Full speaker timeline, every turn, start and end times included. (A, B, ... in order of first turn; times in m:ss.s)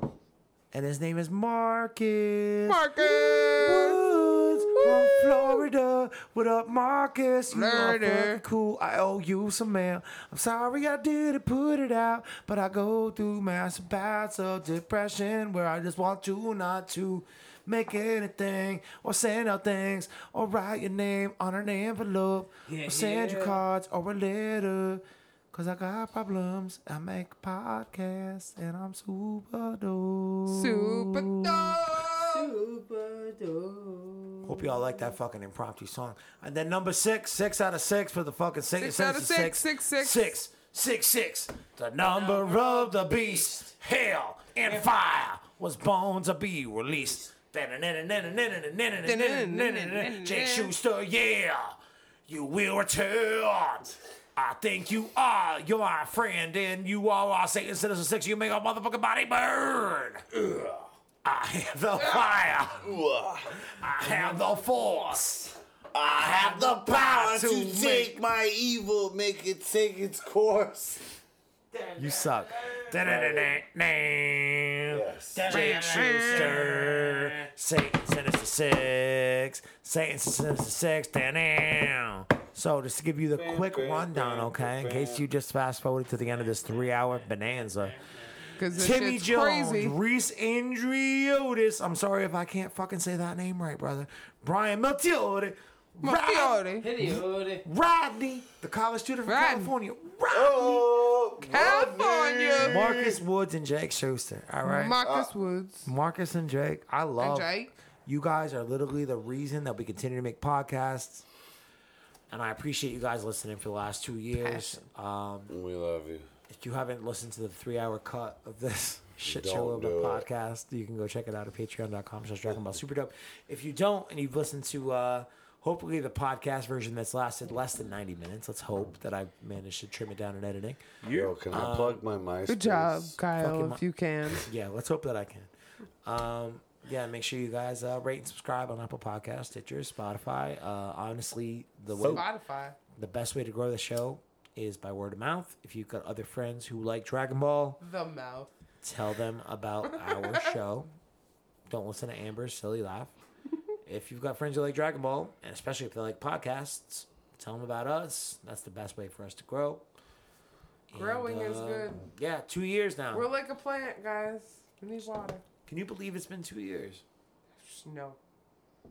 0:00.7-0:32.0 A
0:02.7-0:05.6 B
0:07.5-0:08.4 B
0:22.7-0:23.6 C
0:30.5-0:32.5 B
0:32.3-0:34.8 C
0:34.4-1:00.3 A
0:38.8-0:40.3 B
0:42.0-0:43.6 C
0:49.0-0:50.7 B
1:00.4-1:00.7 D
1:01.2-1:02.9 A
1:02.8-1:04.3 D
1:03.7-1:05.6 A
1:05.9-1:11.2 D
1:06.2-1:08.1 A
1:12.0-1:28.0 A
1:13.0-1:13.6 D
1:14.9-1:16.3 D
1:15.4-1:17.3 C
1:23.3-1:25.2 D
1:28.6-1:30.0 B
1:28.8-1:40.9 A
1:36.0-1:36.9 B
1:36.8-1:37.6 C
1:39.3-1:39.7 B
1:40.3-1:43.2 D
1:41.5-1:42.8 B
1:42.5-1:45.0 A
1:44.6-1:45.9 B
1:45.0-1:45.3 D
1:45.8-1:47.5 A
1:47.2-1:47.7 B
1:48.1-1:51.2 A
1:52.3-1:55.5 A
1:54.4-1:54.8 B
1:55.5-1:56.3 D
1:56.5-2:10.8 A
1:59.2-2:00.3 D
2:11.0-2:11.3 C
2:11.1-2:13.2 D
2:11.5-2:12.0 A
2:12.5-2:14.5 B
2:13.4-2:13.8 A
2:14.4-2:15.5 A
2:16.0-2:22.3 A
2:21.9-2:22.2 D
2:22.0-2:22.8 B
2:23.0-2:27.8 A
2:27.8-2:28.5 B
2:28.8-2:30.9 A
2:30.0-2:30.4 B
2:31.7-2:33.1 A
2:33.8-2:39.8 A
2:40.9-2:43.3 A
2:41.0-2:42.1 B
2:43.1-2:45.4 B
2:45.7-2:47.0 A
2:47.6-2:48.2 B